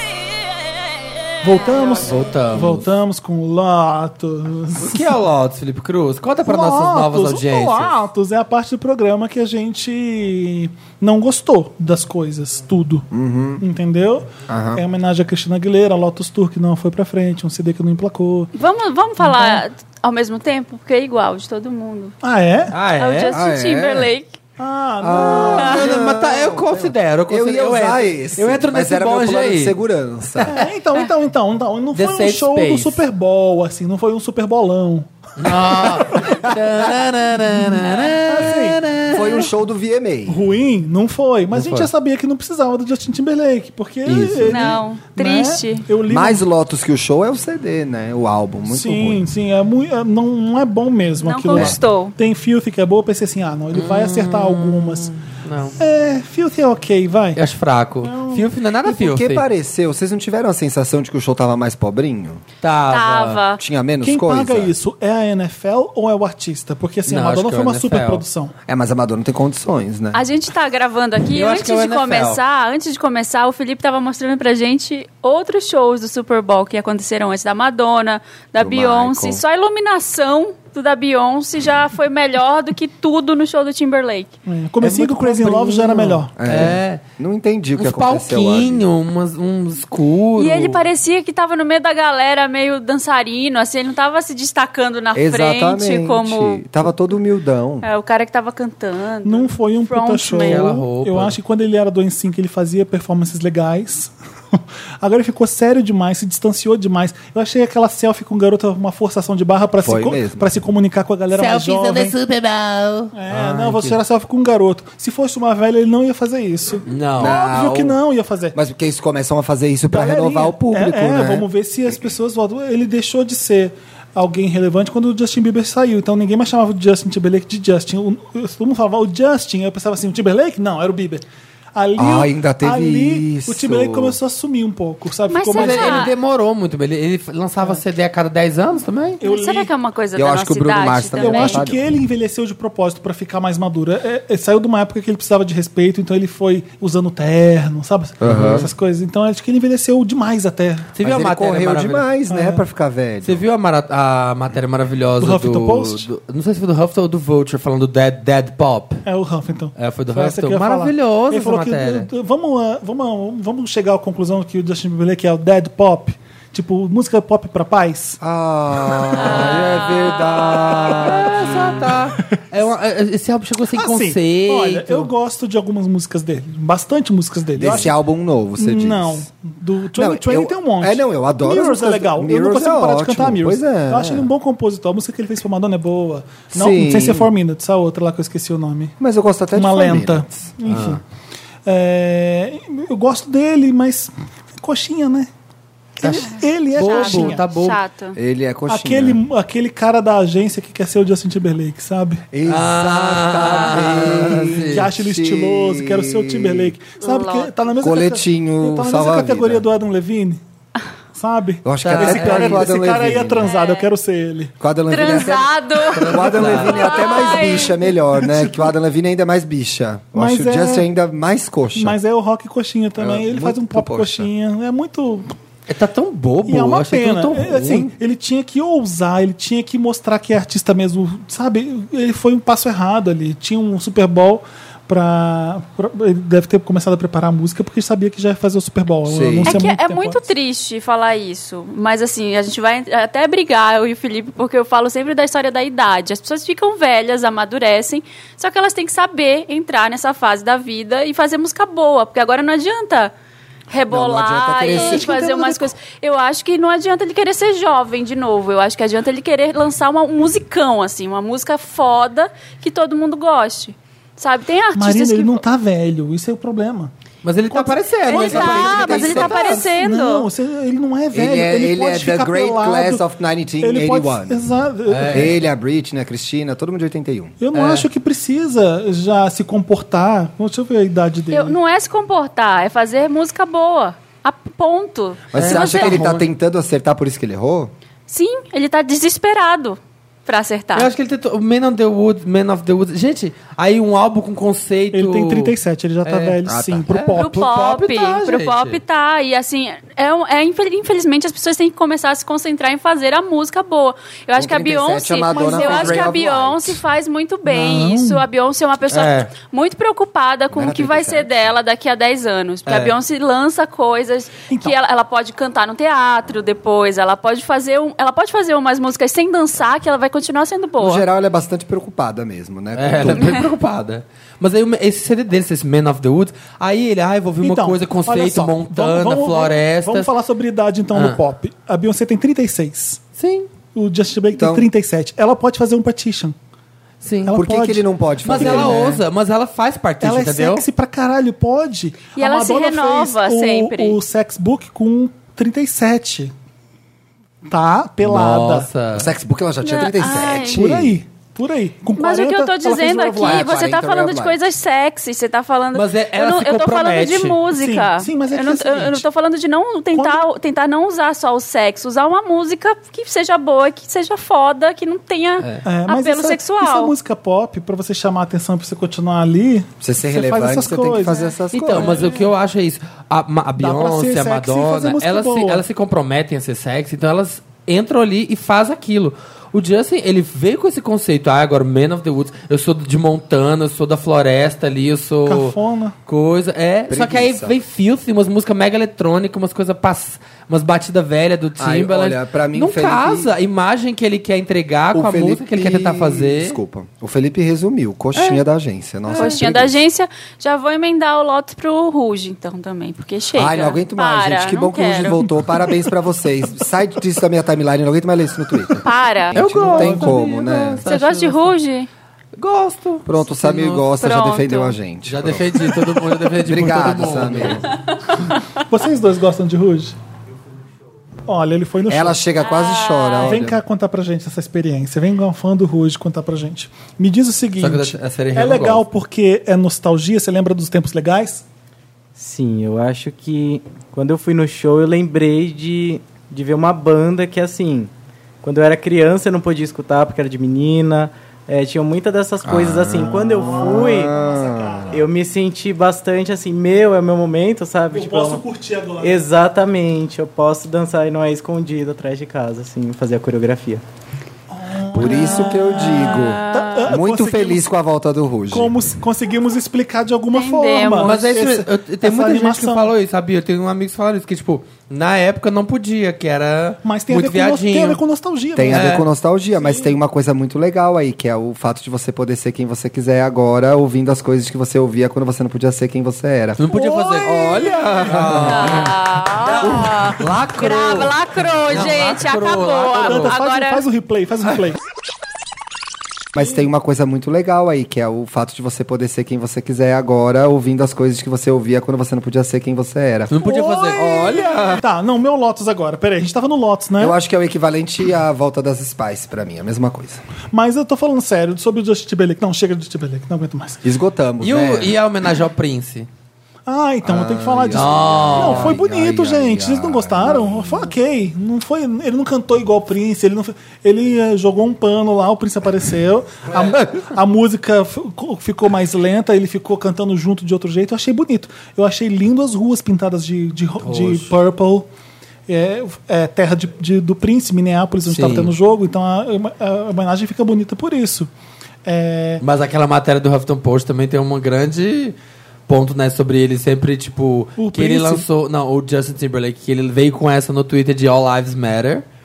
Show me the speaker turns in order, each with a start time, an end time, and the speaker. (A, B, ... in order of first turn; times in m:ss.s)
0:01.4-0:05.1 A
0:01.6-0:02.0 B
0:02.0-0:02.8 C
0:04.8-0:08.0 C
0:06.4-0:13.1 A
0:13.1-0:13.6 D
0:13.6-0:18.5 A
0:14.5-0:14.8 D
0:18.5-0:22.1 B
0:19.2-0:19.6 A
0:22.2-0:22.7 A
0:22.7-0:23.4 C
0:23.0-0:24.4 B
0:23.3-0:24.1 D
0:24.6-0:25.8 A
0:25.0-0:30.6 D
0:25.3-0:29.8 C
0:30.4-0:36.3 A
0:31.9-0:33.0 C
0:35.4-0:39.5 C
0:36.2-0:36.7 D
0:37.5-0:38.8 A
0:39.1-0:40.4 D
0:40.3-0:46.4 A
0:41.5-0:41.9 C
0:44.0-0:44.8 D
0:44.5-0:45.8 B
0:46.1-0:49.2 D
0:48.7-0:55.1 A
0:51.2-0:52.1 B
0:53.7-0:55.8 C
0:55.8-0:57.4 A
0:57.4-0:59.4 C
0:58.0-0:58.5 A
0:58.8-1:02.4 D
1:02.6-1:03.4 C
1:02.9-1:03.6 B
1:03.6-1:04.7 D
1:04.0-1:08.5 A
1:07.1-1:08.2 C
1:08.7-1:10.2 D
1:10.1-1:24.3 B
1:11.3-1:12.4 C
1:18.6-1:19.4 D
1:24.4-1:26.3 A
1:24.8-1:26.0 E
1:25.6-1:27.0 C
1:26.4-1:28.8 D
1:27.8-1:30.8 C
1:30.4-1:36.6 B
1:35.1-1:37.9 D
1:37.8-1:40.7 B
1:39.2-1:52.1 A
1:40.4-1:41.4 C
1:49.8-1:50.5 D
1:51.3-1:54.0 C
1:53.1-1:58.6 A
1:56.9-1:58.0 C
1:57.2-1:57.8 D
1:58.5-2:01.5 D
1:59.8-2:16.1 A
2:12.0-2:14.2 D
2:15.3-2:16.1 B
2:15.5-2:19.2 C
2:19.2-2:19.7 A
2:19.2-2:21.6 B
2:20.2-2:21.8 D
2:21.2-2:30.9 A
2:28.2-2:28.7 D
2:28.2-2:28.7 C
2:30.9-2:32.1 C
2:31.0-2:33.4 D
2:32.3-2:32.6 A
2:33.2-2:39.0 C
2:35.2-2:36.1 A
2:39.0-2:48.2 A
2:39.8-2:42.1 C
2:48.2-2:51.9 D
2:49.2-2:50.1 C
2:49.2-2:51.0 B
2:50.9-2:55.1 C
2:53.7-2:57.9 A
2:57.6-2:59.3 D
2:58.6-3:08.9 A
2:59.9-3:04.3 D
3:06.5-3:07.3 D
3:09.0-3:10.9 D
3:09.5-3:11.0 A
3:10.7-3:11.0 C
3:11.6-3:15.3 A
3:16.0-3:17.4 A
3:16.0-3:17.8 C
3:16.1-3:18.2 B
3:18.1-3:19.2 D
3:18.7-3:22.2 A
3:22.3-3:26.7 D
3:22.4-3:24.9 C
3:24.7-3:30.4 A
3:27.0-3:27.5 B
3:27.8-3:29.6 D
3:31.1-3:34.5 A
3:31.6-3:33.5 D
3:31.8-3:32.7 C
3:33.4-3:33.9 B
3:34.6-3:42.0 D
3:34.9-3:37.8 B
3:35.9-3:37.0 C
3:38.2-3:38.6 A
3:40.1-3:40.8 A
3:41.7-3:45.3 A
3:43.0-3:44.3 D
3:45.7-3:47.9 C
3:46.5-4:00.2 A
3:59.0-3:59.7 D
3:59.4-4:13.1 B
4:13.7-4:25.4 B
4:13.9-4:15.7 D
4:24.7-4:26.9 A
4:27.2-4:29.2 C
4:27.5-4:33.0 A
4:28.1-4:30.3 B
4:28.1-4:29.6 D
4:31.1-4:34.4 D
4:33.6-4:35.4 A
4:34.9-4:35.4 C
4:35.1-4:37.3 D
4:37.4-4:41.6 A
4:37.5-4:37.9 C
4:41.3-4:46.1 B
4:45.3-4:47.7 D
4:45.3-4:46.3 C
4:48.1-4:50.9 B
4:50.7-4:58.8 C
4:54.9-4:57.5 A
4:56.4-4:56.9 D
4:57.2-5:21.0 B
5:04.4-5:06.8 D
5:05.3-5:06.1 A
5:07.4-5:08.2 A
5:08.9-5:09.3 C
5:10.5-5:11.5 D
5:12.7-5:12.9 C
5:14.5-5:14.7 A
5:20.8-5:23.4 D
5:22.8-5:30.1 C
5:27.4-5:33.0 A
5:30.9-5:31.2 C
5:33.2-5:33.5 C
5:33.7-5:36.3 A
5:34.3-5:34.7 D
5:37.0-5:37.4 C
5:37.2-5:39.0 A
5:37.3-5:39.0 D
5:38.2-5:40.6 C
5:40.0-5:46.3 A
5:42.2-5:44.0 B
5:47.5-5:48.7 A
5:48.0-5:49.1 C
5:48.9-5:51.0 D
5:49.6-5:50.7 B
5:50.4-5:53.6 A
5:52.0-6:06.9 B
5:53.2-5:54.4 D
5:55.7-5:57.4 C
5:57.5-5:59.0 A
5:59.9-6:00.2 A
6:05.6-6:12.3 A
6:09.8-6:12.1 D
6:11.5-6:25.6 C
6:13.6-6:15.6 A
6:25.2-6:25.9 A
6:26.1-6:36.6 C
6:26.9-6:27.6 D
6:31.6-6:33.3 D
6:34.9-6:39.8 D
6:38.1-6:38.4 C
6:39.1-6:45.2 B
6:43.3-6:50.8 D
6:48.8-6:49.4 B
6:49.3-6:51.5 C
6:49.6-6:50.2 A
6:50.8-6:51.9 B
6:52.4-6:53.8 C
6:53.0-6:55.8 D
6:53.9-6:54.8 B
6:55.0-6:57.7 C
6:56.4-6:57.7 D
6:58.6-7:00.0 A
7:01.2-7:02.2 A
7:01.9-7:03.6 D
7:02.4-7:03.4 B
7:03.2-7:11.4 A
7:07.6-7:08.9 C
7:12.2-7:17.9 E
7:18.4-7:24.2 E
7:22.4-7:25.0 D
7:22.9-7:25.0 A
7:24.9-7:28.4 E
7:27.9-7:29.2 A
7:29.0-7:33.8 E
7:34.5-7:37.7 A
7:34.9-7:38.7 D
7:35.0-7:37.0 B
7:38.5-7:42.9 A
7:40.3-7:41.2 B
7:41.0-7:48.0 C
7:46.8-7:49.9 A
7:48.6-7:56.6 D
7:48.7-7:49.0 C
7:56.6-8:03.3 C
7:56.6-7:58.5 A
7:57.2-7:58.9 D
7:58.5-8:03.8 B
7:59.6-8:00.0 D
8:03.0-8:04.8 A
8:06.3-8:13.3 D
8:13.3-8:14.8 C
8:13.4-8:17.2 A
8:13.9-8:14.8 D
8:17.0-8:20.2 D
8:20.5-8:23.8 A
8:23.8-8:25.0 D
8:24.4-8:26.1 C
8:26.6-8:44.9 A
8:27.0-8:30.9 D
8:27.7-8:28.8 C
8:43.8-8:44.3 C
8:45.5-8:51.3 A
8:48.0-8:48.5 C
8:51.8-8:52.4 A
8:52.4-8:55.2 C
8:55.7-9:02.0 C
8:57.6-8:58.2 A